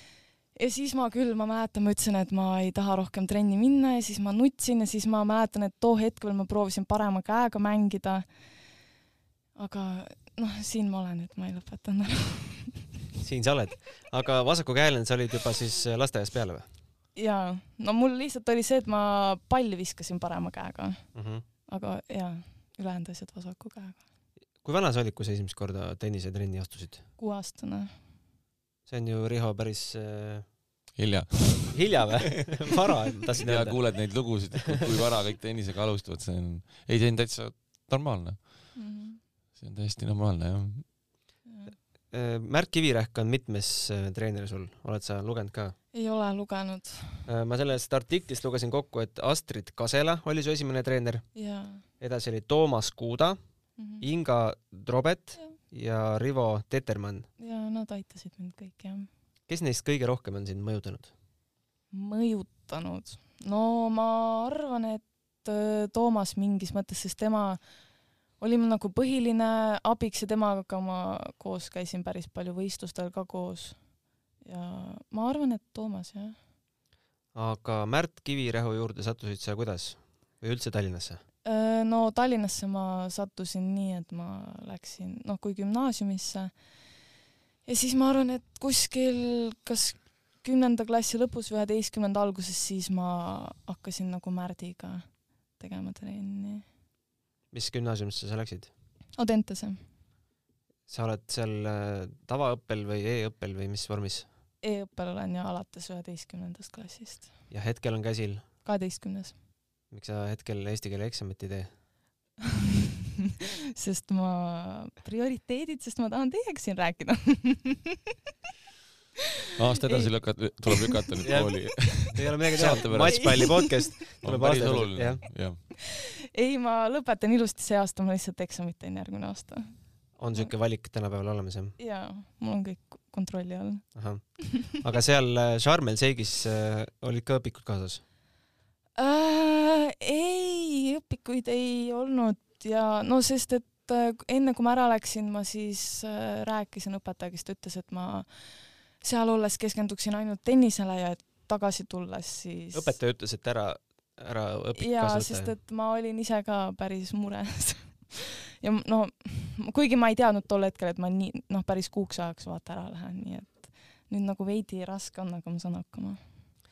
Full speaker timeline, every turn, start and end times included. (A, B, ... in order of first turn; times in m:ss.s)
0:00.5-0:08.3 A
0:09.6-0:12.9 A
0:13.2-0:16.6 B
0:17.1-0:21.1 A
0:21.1-0:21.4 B
0:21.7-0:24.0 A
0:24.6-0:27.0 B
0:27.2-0:27.9 A
0:28.9-0:30.4 B
0:31.0-0:32.0 C
0:31.7-0:33.8 B
0:33.3-0:38.7 C
0:38.7-0:39.2 A
0:39.6-0:40.9 C
0:41.4-0:41.7 A
0:42.1-0:45.8 B
0:45.9-0:47.2 A
0:47.2-0:51.4 B
0:51.3-0:51.8 A
0:52.0-0:53.4 B
0:53.8-0:54.0 A
0:54.0-0:57.3 B
0:57.4-0:59.1 A
0:59.5-1:01.1 B
1:01.9-1:07.6 A
1:08.4-1:13.8 A
1:14.4-1:16.4 A
1:17.3-1:21.2 B
1:21.4-1:26.5 A
1:27.6-1:36.6 A
1:37.5-1:38.7 B
1:39.2-1:39.8 A
1:40.9-1:44.2 B
1:44.6-1:47.3 A
1:47.5-1:48.4 B
1:48.6-1:49.3 A
1:49.9-1:51.7 B
1:53.8-1:58.0 A
1:59.6-2:05.6 C
1:59.8-2:00.8 A
2:01.2-2:05.2 B
2:03.0-2:03.9 A
2:06.3-2:10.5 A
2:10.2-2:11.8 B
2:11.8-2:13.8 A
2:13.9-2:18.0 B
2:19.0-2:28.3 A
2:28.9-2:33.0 A
2:32.7-2:35.5 B
2:34.7-2:46.2 A